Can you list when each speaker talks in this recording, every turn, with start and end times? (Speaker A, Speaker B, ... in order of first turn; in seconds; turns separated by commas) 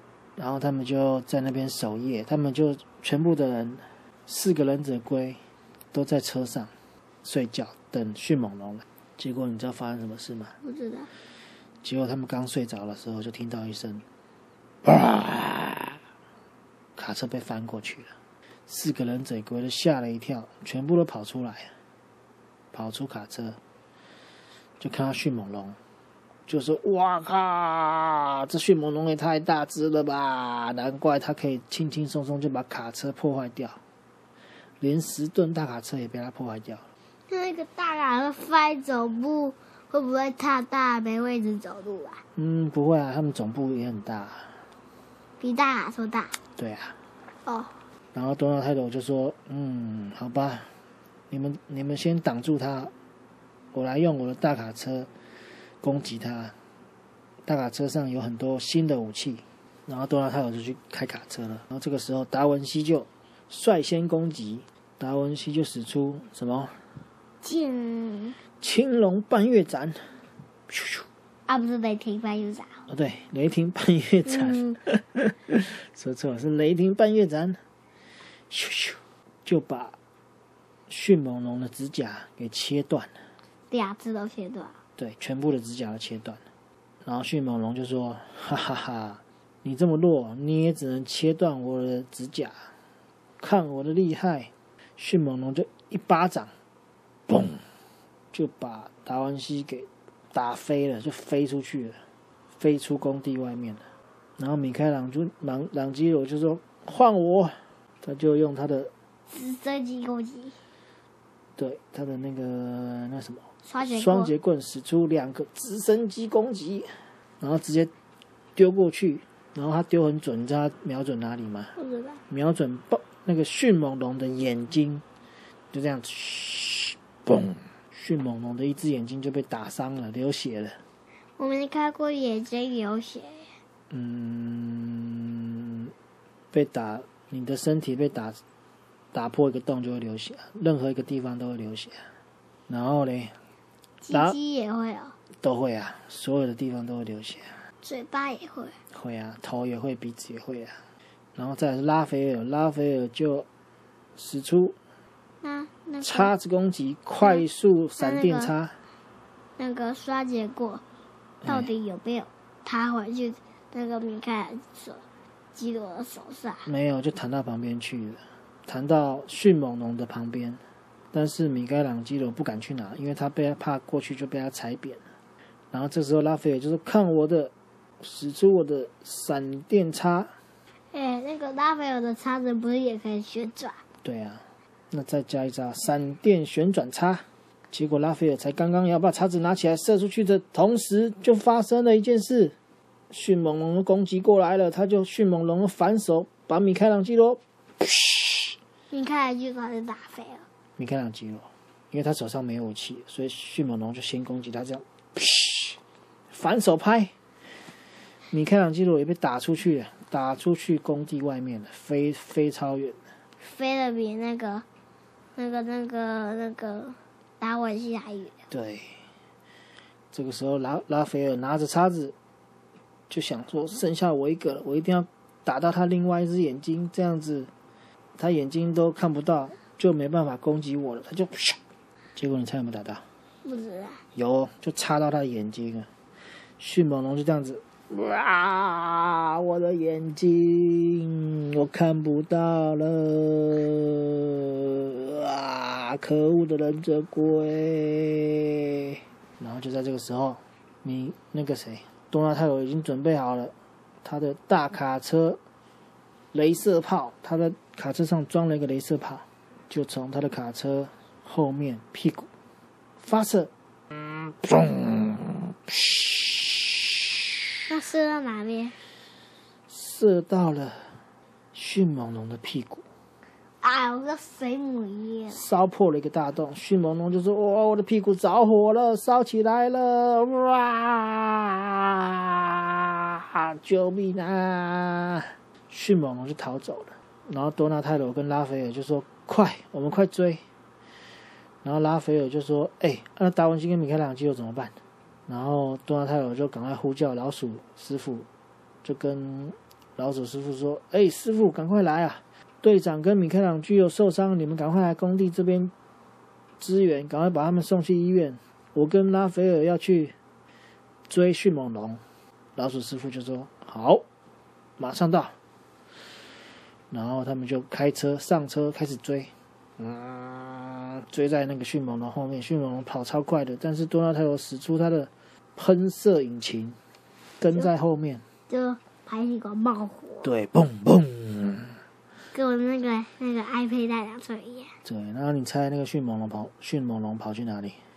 Speaker A: 0.4-5.4, Speaker A: 5.9-6.7, Speaker A: 7.2-10.6, Speaker B: 10.6-11.1, Speaker A: 11.8-14.0, Speaker A: 14.8-16.0, Speaker A: 17.0-18.1, Speaker A: 18.7-21.7, Speaker A: 22.7-23.6, Speaker A: 24.8-25.8, Speaker A: 26.5-33.8, Speaker A: 34.8-36.9, Speaker B: 37.3-42.2, Speaker A: 42.4-44.6, Speaker B: 45.4-46.4, Speaker A: 46.6-47.0, Speaker B: 47.5-47.7, Speaker A: 48.1-50.7, Speaker A: 51.3-52.9, Speaker A: 53.7-55.1, Speaker A: 55.8-56.5, Speaker A: 57.5-66.8, Speaker B: 67.4-68.4, Speaker A: 68.6-70.1, Speaker A: 70.7-71.1, Speaker B: 71.5-72.7, Speaker A: 72.9-77.6, Speaker B: 74.3-74.8, Speaker A: 78.5-80.0, Speaker A: 80.9-83.1, Speaker B: 83.7-84.8, Speaker A: 85.0-86.4, Speaker A: 87.0-92.6, Speaker A: 93.4-96.5, Speaker A: 97.3-97.6, Speaker A: 98.3-102.0, Speaker A: 102.6-103.8, Speaker A: 104.4-108.9, Speaker B: 109.3-110.6, Speaker A: 111.6-116.9, Speaker B: 113.7-114.3, Speaker A: 117.4-117.9, Speaker A: 118.6-121.7, Speaker B: 121.8-122.2, Speaker A: 122.3-125.0, Speaker A: 125.7-130.8, Speaker B: 131.4-133.5, Speaker A: 133.9-135.9, Speaker A: 136.5-138.4, Speaker A: 139.1-142.0, Speaker A: 142.7-143.3, Speaker B: 144.0-145.2, Speaker A: 144.1-144.4, Speaker A: 145.4-147.6, Speaker B: 147.8-148.8, Speaker A: 148.9-150.8, Speaker A: 151.4-153.5, Speaker A: 154.2-154.8, Speaker B: 155.4-156.3, Speaker A: 156.0-158.8, Speaker B: 158.0-158.5, Speaker B: 159.6-160.8, Speaker A: 161.4-161.7, Speaker B: 161.4-166.7, Speaker A: 166.7-170.6, Speaker A: 171.1-175.0, Speaker A: 175.7-180.3, Speaker B: 180.9-183.8, Speaker A: 184.0-192.6, Speaker A: 193.1-198.5, Speaker B: 198.9-200.4, Speaker A: 200.8-205.8, Speaker A: 206.3-207.1, Speaker A: 208.3-213.0, Speaker B: 213.4-214.7, Speaker B: 215.4-218.3, Speaker A: 218.5-219.0, Speaker A: 220.1-222.2, Speaker A: 223.1-227.5, Speaker A: 228.2-231.6, Speaker A: 232.2-233.0, Speaker B: 233.4-234.0, Speaker A: 234.2-235.9, Speaker A: 236.6-244.2, Speaker A: 245.0-255.4, Speaker A: 256.3-262.3, Speaker A: 263.0-266.6, Speaker B: 267.7-268.8, Speaker A: 269.7-271.0, Speaker A: 271.5-272.8, Speaker B: 273.6-275.5, Speaker A: 275.3-290.4, Speaker A: 291.6-294.8, Speaker A: 295.3-298.3, Speaker A: 298.8-305.7, Speaker A: 306.6-310.1, Speaker A: 311.1-312.0, Speaker A: 312.6-314.0, Speaker A: 314.8-315.3, Speaker A: 316.9-326.8, Speaker A: 327.4-328.2, Speaker B: 328.5-330.3, Speaker A: 330.2-331.8, Speaker B: 332.3-334.7, Speaker A: 334.8-337.8